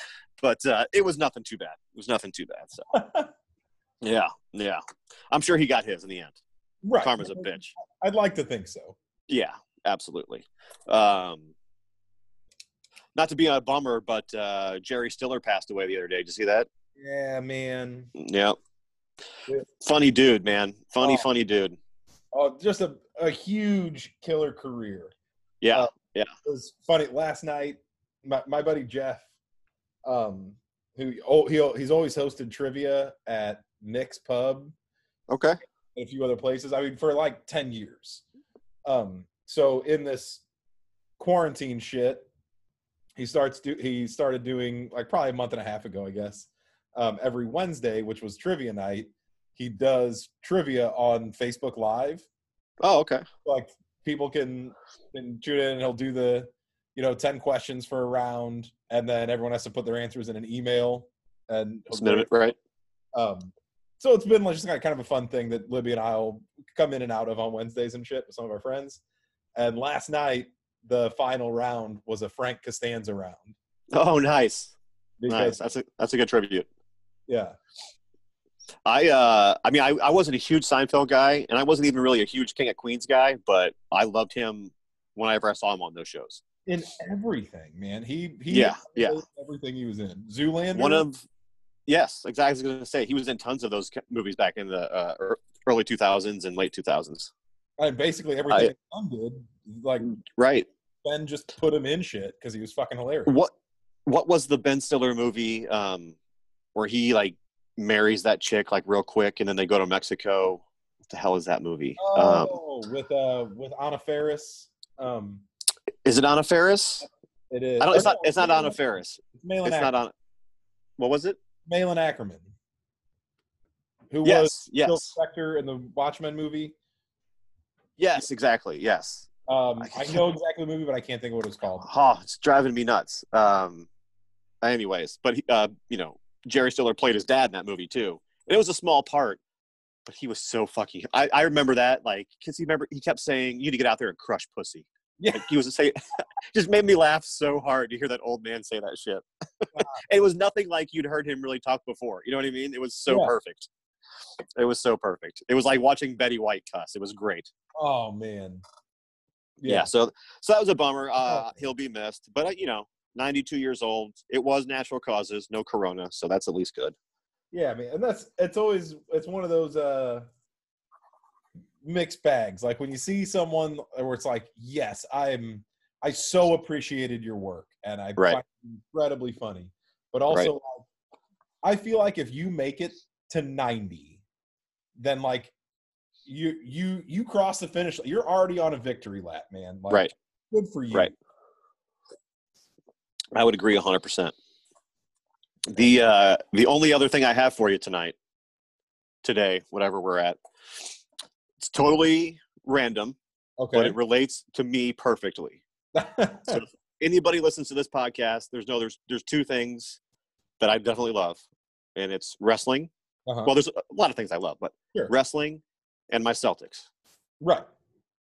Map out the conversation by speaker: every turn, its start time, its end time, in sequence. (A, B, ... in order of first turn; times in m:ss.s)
0:00.4-0:02.9 A
0:02.9-0:03.3 B
0:04.0-0:04.8 A
0:05.3-0:06.4 A
0:06.8-0:09.0 B
0:07.0-0:07.6 A
0:09.3-0:11.5 A
0:13.2-0:16.7 A
0:17.0-0:18.1 B
0:18.2-0:18.6 A
0:19.8-0:21.8 A
0:21.0-0:21.3 B
0:22.3-0:25.1 B
0:25.6-0:26.3 A
0:26.4-0:29.3 B
0:30.0-0:34.7 B
0:35.3-0:35.6 A
0:36.0-0:38.2 B
0:38.9-0:40.4 B
0:41.2-0:42.3 B
0:43.2-0:52.2 B
0:52.8-0:53.3 A
0:53.4-1:02.3 B
1:01.9-1:02.6 A
1:03.1-1:09.0 B
1:09.6-1:13.6 B
1:13.9-1:14.8 A
1:15.2-1:15.6 B
1:15.3-1:16.7 A
1:17.3-1:17.6 B
1:18.9-1:26.4 A
1:26.7-1:31.0 B
1:28.5-1:29.2 A
1:30.7-1:31.3 A
1:31.9-1:37.3 A
1:37.8-1:40.2 B
1:40.2-1:40.7 A
1:41.0-1:43.3 B
1:43.3-1:43.5 A
1:44.1-1:46.2 A
1:46.8-1:52.6 A
1:52.0-1:55.4 B
1:56.0-1:57.1 A
1:57.5-1:59.9 B
1:57.8-2:00.1 A
2:01.0-2:01.4 A
2:01.7-2:02.5 B
2:04.1-2:06.8 B
2:04.2-2:05.1 A
2:08.0-2:09.3 A
2:09.5-2:11.8 B
2:09.8-2:10.2 A
2:11.8-2:13.9 A
2:14.6-2:19.4 A
2:20.1-2:33.7 A
2:25.2-2:25.5 B
2:33.1-2:33.4 B
2:34.6-2:37.5 A
2:37.8-2:38.6 B
2:39.6-2:39.9 B
2:39.7-2:47.0 A
2:41.2-2:41.6 B
2:47.5-2:50.3 B
2:51.8-3:00.8 B
3:01.6-3:04.2 B
3:05.0-3:05.5 B
3:06.3-3:11.1 B
3:13.4-3:14.3 A
3:15.7-3:18.2 A
3:19.2-3:20.4 A
3:21.6-3:23.2 A
3:23.6-3:24.0 B
3:23.7-3:25.6 A
3:25.9-3:26.6 B
3:26.5-3:30.0 A
3:30.6-3:31.4 A
3:32.0-3:32.9 A
3:33.3-3:33.5 B
3:33.4-3:36.9 A
3:37.4-3:37.7 B